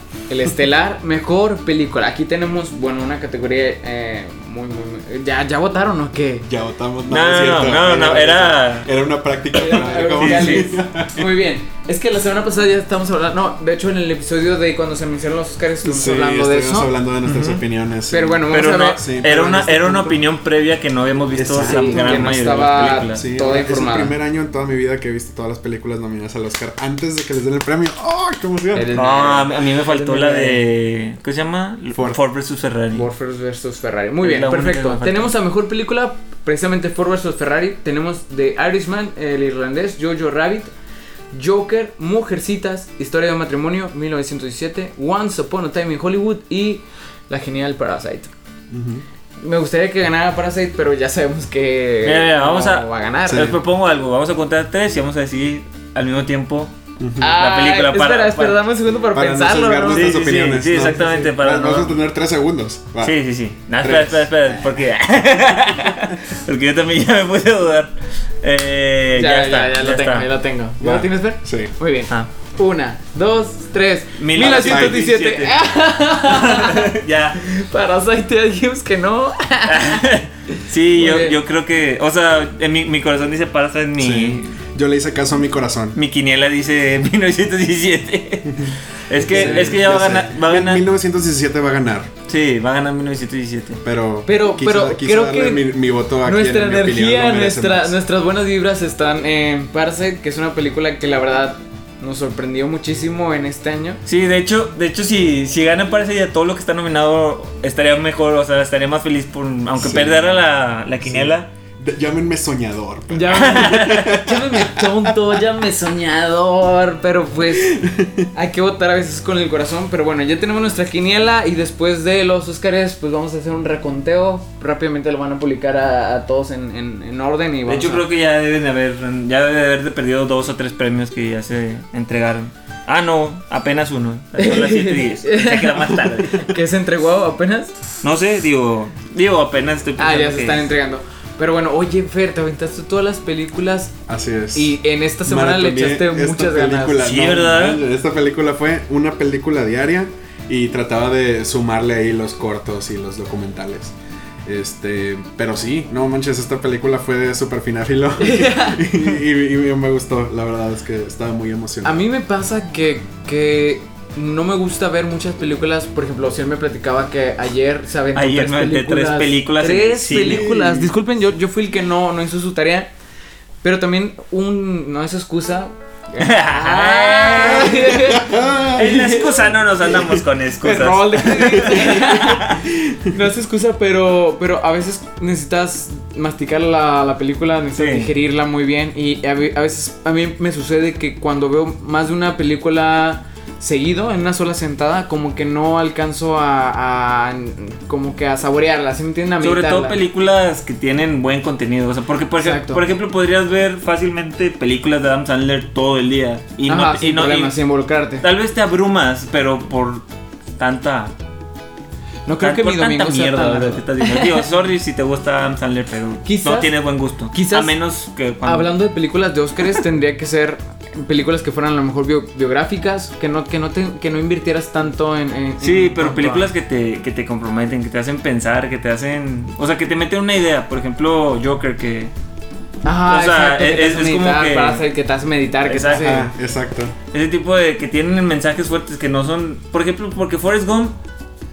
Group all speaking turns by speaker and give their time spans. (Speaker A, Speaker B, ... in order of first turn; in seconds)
Speaker A: 0.3-6.5, 9.5-16.9, 18.1-19.0, 21.6-24.1, 28.7-30.6, 32.9-40.7, 41.3-48.3, 49.4-53.5, 57.2-61.3, 69.1-80.0, 80.9-81.3, 89.3-89.8, 94.3-104.0, 113.1-128.1, 134.4-137.7, 140.0-143.9, 144.5-147.0, 158.2-158.9, 161.8-172.9, 173.6-179.5, 180.6-200.0, 202.4-202.8, 206.7-208.2, 212.2-214.4, 216.2-216.7, 217.3-217.7, 218.4-226.5, 232.8-236.3
Speaker B: 6.5-11.3, 15.8-20.2, 21.3-28.9, 31.9-32.2, 48.7-49.0, 53.3-53.6, 57.0-57.3, 59.1-63.2, 63.8-64.8, 70.8-71.7, 74.4-75.0, 84.0-86.0, 88.5-92.1, 93.8-98.0, 109.8-110.2, 111.0-115.1, 117.6-118.3, 144.1-162.1, 178.1-179.0, 235.9-236.9
Speaker C: 7.1-8.9, 10.1-10.7, 17.2-17.6, 18.5-23.2, 28.9-33.0, 34.2-35.3, 52.0-58.6, 59.9-62.0, 63.0-70.3, 74.2-77.4, 79.7-84.6, 85.9-90.8, 92.3-93.8, 104.0-111.5, 113.3-114.2, 127.7-136.5, 138.0-140.7, 147.0-147.8, 168.1-170.8, 176.2-182.6, 187.8-188.1, 199.4-207.5, 208.2-210.0, 210.6-211.1, 212.4-218.7, 225.6-232.1, 233.1-234.8, 235.7-236.3, 237.1-240.9